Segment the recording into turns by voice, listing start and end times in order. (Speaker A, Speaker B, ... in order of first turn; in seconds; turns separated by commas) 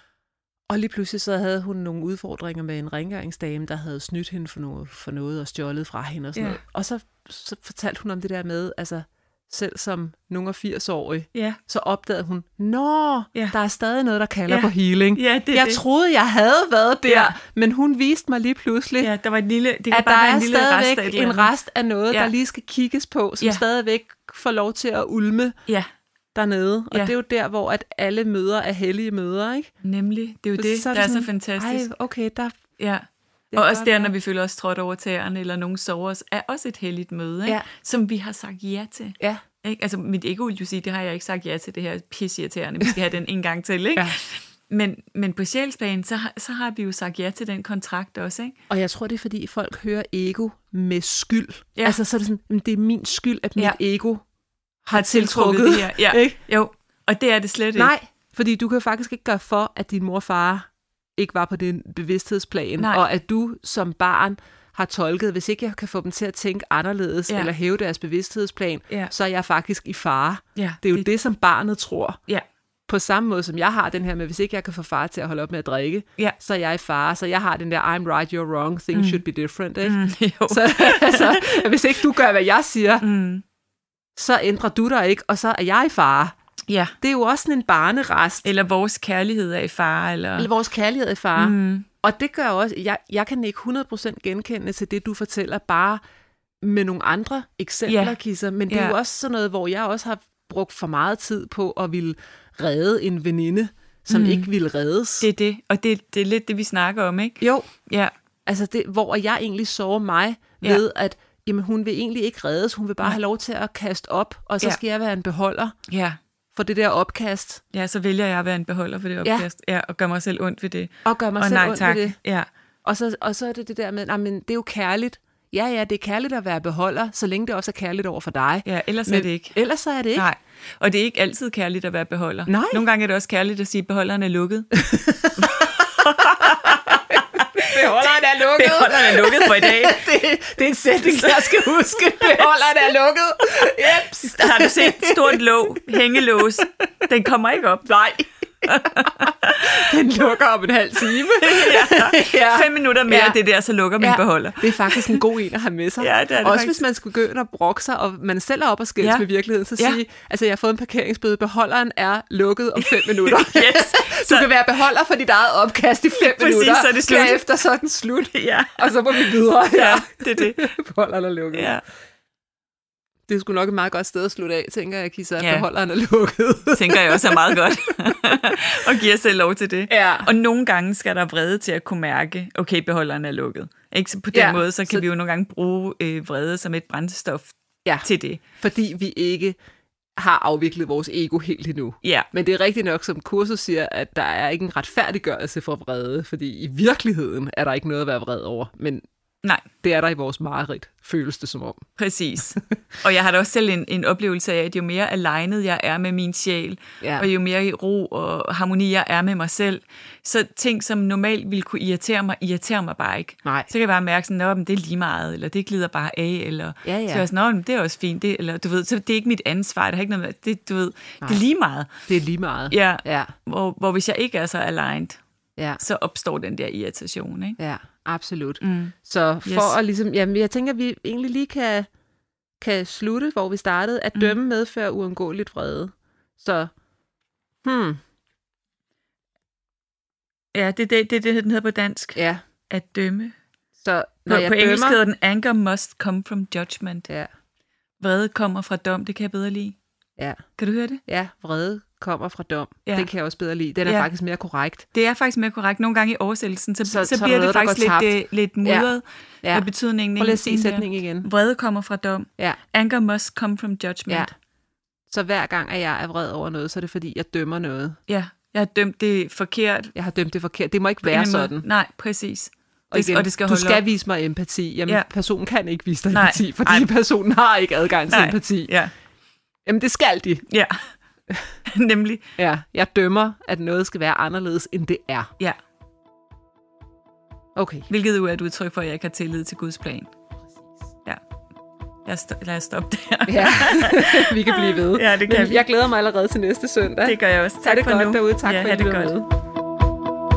Speaker A: 0.7-19.1, Speaker B: 14.5-15.8, Speaker B: 17.1-17.3, Speaker B: 19.0-21.5, Speaker A: 19.9-25.6, Speaker A: 26.4-29.7, Speaker B: 29.8-31.9, Speaker A: 30.6-32.6, Speaker B: 32.8-48.5, Speaker A: 33.5-34.1, Speaker A: 48.7-54.2, Speaker A: 54.8-56.4, Speaker B: 54.9-57.9, Speaker A: 57.7-72.2, Speaker B: 70.5-71.1, Speaker A: 72.9-83.0, Speaker B: 78.9-79.2, Speaker B: 79.8-82.0, Speaker B: 83.0-83.4, Speaker A: 84.2-86.3, Speaker B: 86.7-86.9, Speaker A: 87.0-88.5, Speaker B: 88.4-90.5, Speaker A: 90.4-96.0, Speaker B: 91.4-91.9, Speaker A: 96.6-105.3, Speaker B: 97.9-98.2, Speaker B: 98.7-99.0, Speaker B: 104.1-104.5, Speaker B: 105.2-108.1, Speaker A: 107.4-107.7, Speaker A: 108.5-115.7, Speaker B: 115.9-116.2, Speaker A: 116.5-117.6, Speaker B: 117.7-122.5, Speaker A: 121.0-122.2, Speaker A: 122.8-130.3, Speaker B: 128.6-129.6, Speaker B: 130.1-140.1, Speaker A: 132.5-132.8, Speaker A: 134.8-146.7, Speaker B: 141.0-142.4, Speaker B: 143.4-148.1, Speaker A: 147.9-153.4, Speaker B: 148.6-149.9, Speaker B: 151.2-155.2, Speaker A: 154.0-171.7, Speaker B: 156.0-156.8, Speaker B: 159.0-159.2, Speaker B: 162.8-164.5, Speaker B: 166.2-167.4, Speaker B: 168.3-170.7, Speaker B: 171.5-171.8, Speaker A: 173.3-178.7, Speaker B: 175.4-175.7, Speaker B: 176.7-188.4, Speaker A: 179.9-180.3, Speaker A: 184.3-185.0, Speaker A: 188.6-189.6, Speaker A: 190.2-199.0, Speaker B: 192.0-192.3, Speaker A: 199.8-201.9, Speaker B: 202.0-222.0, Speaker A: 207.0-207.3, Speaker A: 216.8-217.2, Speaker A: 222.1-223.3, Speaker B: 222.7-225.2, Speaker B: 225.8-227.6, Speaker A: 227.6-231.9, Speaker B: 228.6-228.9, Speaker B: 229.4-229.8, Speaker A: 232.6-236.7, Speaker A: 237.6-238.0, Speaker B: 240.5-243.4, Speaker A: 242.2-242.4, Speaker A: 243.8-245.0, Speaker B: 244.3-247.1, Speaker B: 248.0-249.8, Speaker B: 250.6-251.0, Speaker A: 251.1-254.9, Speaker B: 254.9-264.3, Speaker A: 256.9-258.9, Speaker A: 259.4-261.3, Speaker A: 265.1-268.0, Speaker B: 268.1-269.9, Speaker A: 269.9-271.6, Speaker B: 271.1-273.8, Speaker A: 272.9-278.7, Speaker B: 276.1-276.9, Speaker B: 278.1-278.9, Speaker A: 279.6-280.4, Speaker B: 280.5-280.8, Speaker B: 281.7-282.3, Speaker A: 282.4-285.3, Speaker A: 287.6-287.9, Speaker B: 287.9-290.1, Speaker B: 292.1-295.6, Speaker A: 293.3-299.3, Speaker B: 297.0-299.1